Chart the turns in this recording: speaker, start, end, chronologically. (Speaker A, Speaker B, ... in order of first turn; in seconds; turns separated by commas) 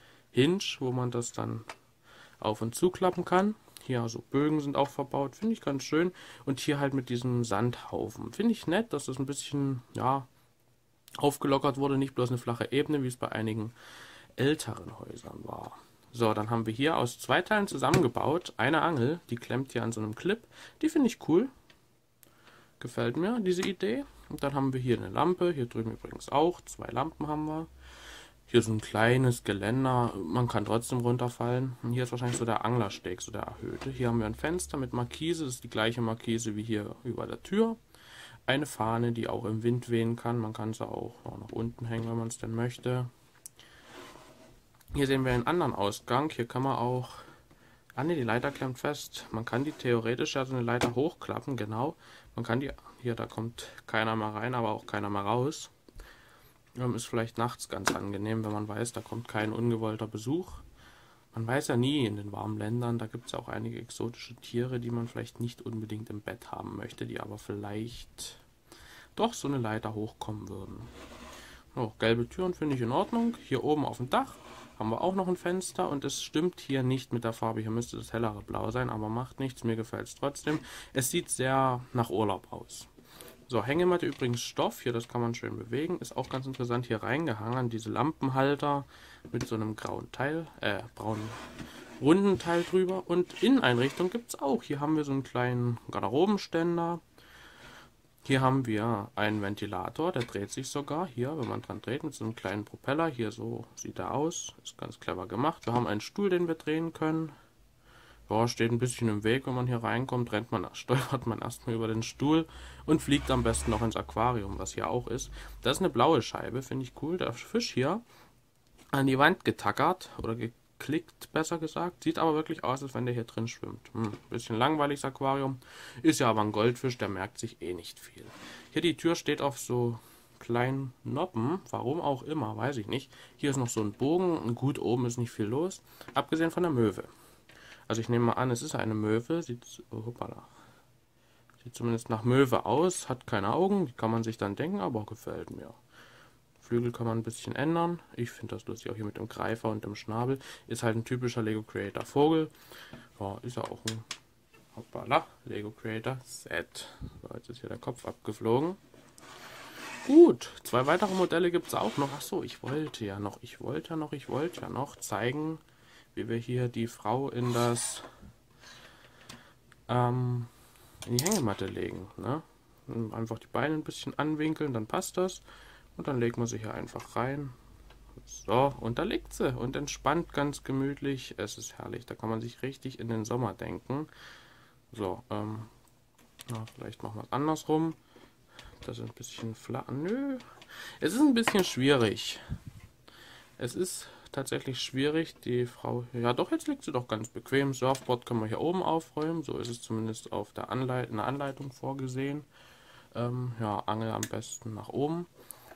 Speaker A: 0.3-1.6, Speaker A: 2.4-10.3, Speaker A: 11.2-13.7, Speaker A: 14.4-21.5, Speaker A: 22.8-27.7, Speaker A: 28.5-37.8, Speaker A: 38.5-43.1, Speaker A: 44.9-47.2, Speaker A: 48.0-55.7, Speaker A: 56.8-60.6, Speaker A: 61.3-68.4, Speaker A: 69.2-70.9, Speaker A: 71.7-82.9, Speaker A: 83.5-91.4, Speaker A: 92.0-97.0, Speaker A: 98.2-107.3, Speaker A: 108.3-118.0, Speaker A: 118.9-137.1, Speaker A: 137.9-140.5, Speaker A: 141.6-145.8, Speaker A: 146.6-152.5, Speaker A: 153.2-154.1, Speaker A: 154.7-158.8, Speaker A: 160.0-165.6, Speaker A: 166.1-168.1, Speaker A: 169.9-170.5, Speaker A: 171.0-175.4, Speaker A: 175.9-177.5, Speaker A: 178.2-184.1, Speaker A: 184.9-185.7, Speaker A: 186.5-188.0, Speaker A: 188.8-190.4, Speaker A: 191.0-192.4, Speaker A: 193.6-202.5, Speaker A: 203.1-205.3